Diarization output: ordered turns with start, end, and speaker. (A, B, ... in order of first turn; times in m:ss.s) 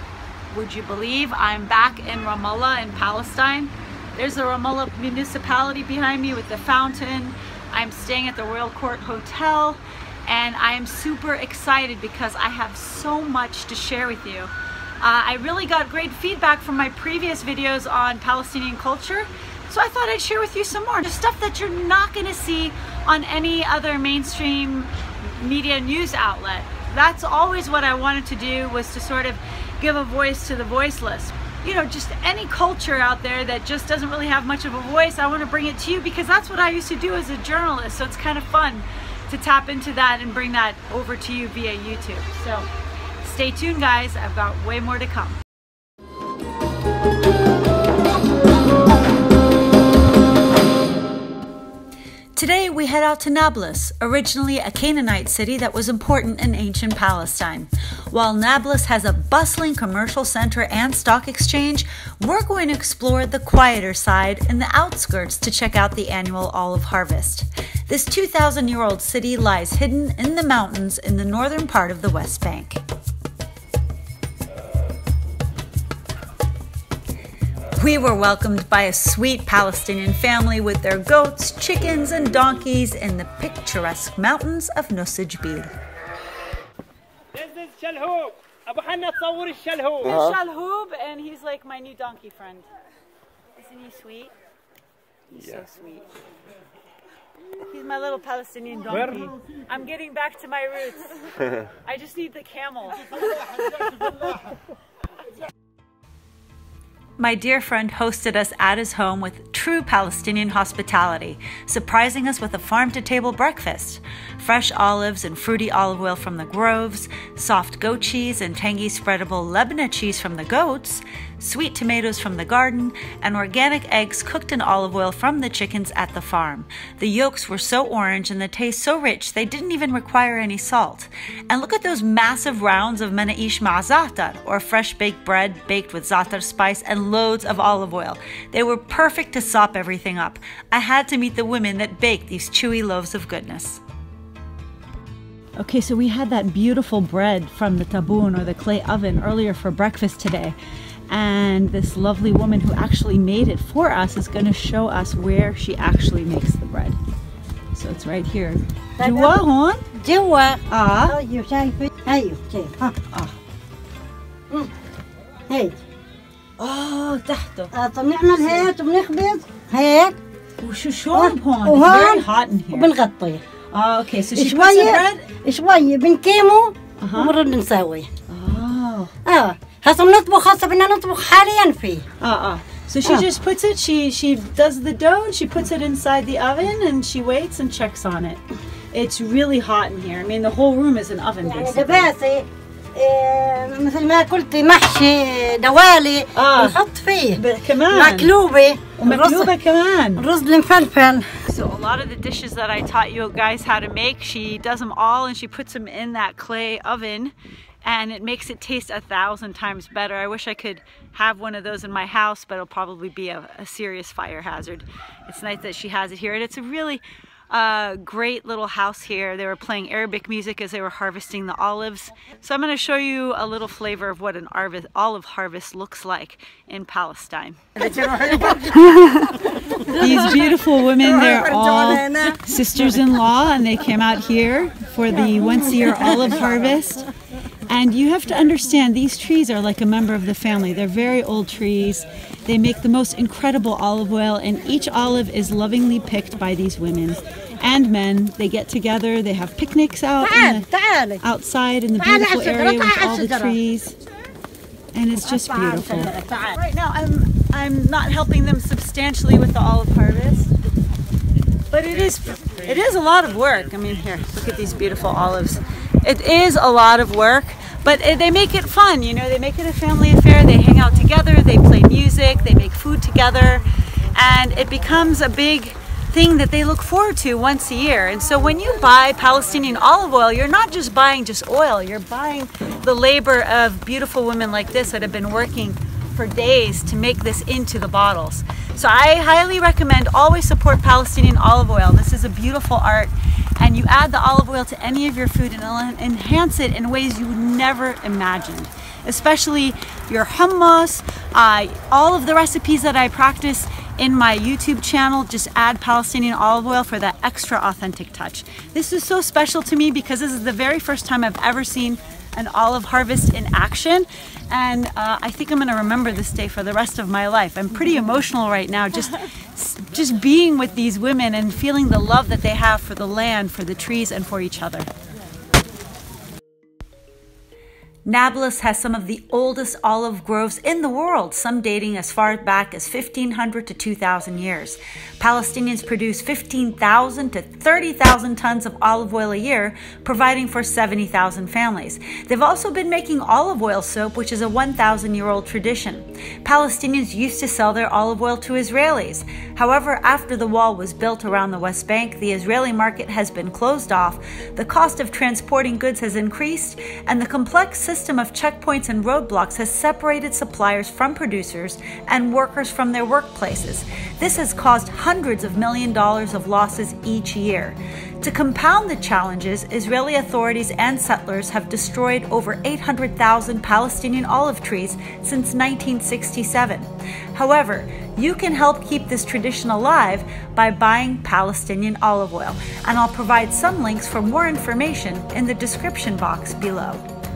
0:00.5-0:42.7 A
0:43.2-0:45.4 A
0:52.3-1:12.8 A
1:17.8-1:25.7 A
1:27.4-1:30.0 B
1:30.0-1:32.6 A
1:33.6-1:34.3 A
1:35.3-1:36.0 A
1:37.6-1:43.9 A
1:47.2-2:23.8 A
2:25.6-2:30.6 A
2:31.1-2:37.0 A
2:37.7-2:39.8 A
2:39.0-2:43.0 C
2:40.7-2:41.2 A
2:43.1-2:43.4 A
2:45.5-2:45.8 C
2:46.6-2:47.7 A
2:47.7-2:50.2 C
2:50.6-2:52.9 A
2:51.1-2:53.4 C
2:53.7-2:55.3 A
2:54.3-2:58.1 C
2:57.0-2:57.3 A
2:58.3-2:59.1 A
2:59.2-3:02.0 C
3:02.2-3:08.4 A
3:08.9-3:12.1 A
3:11.4-3:19.5 C
3:16.3-3:16.8 A
3:17.3-3:18.3 A
3:19.0-3:20.2 A
3:20.2-3:21.3 C
3:21.4-3:47.7 A
3:47.8-3:52.8 C
3:48.7-3:57.0 A
3:57.7-4:14.0 A
4:10.2-4:11.2 C
4:12.0-4:13.6 C
4:14.9-4:20.5 A
4:15.2-4:16.6 C
4:21.7-5:24.9 A
5:28.0-6:27.0 A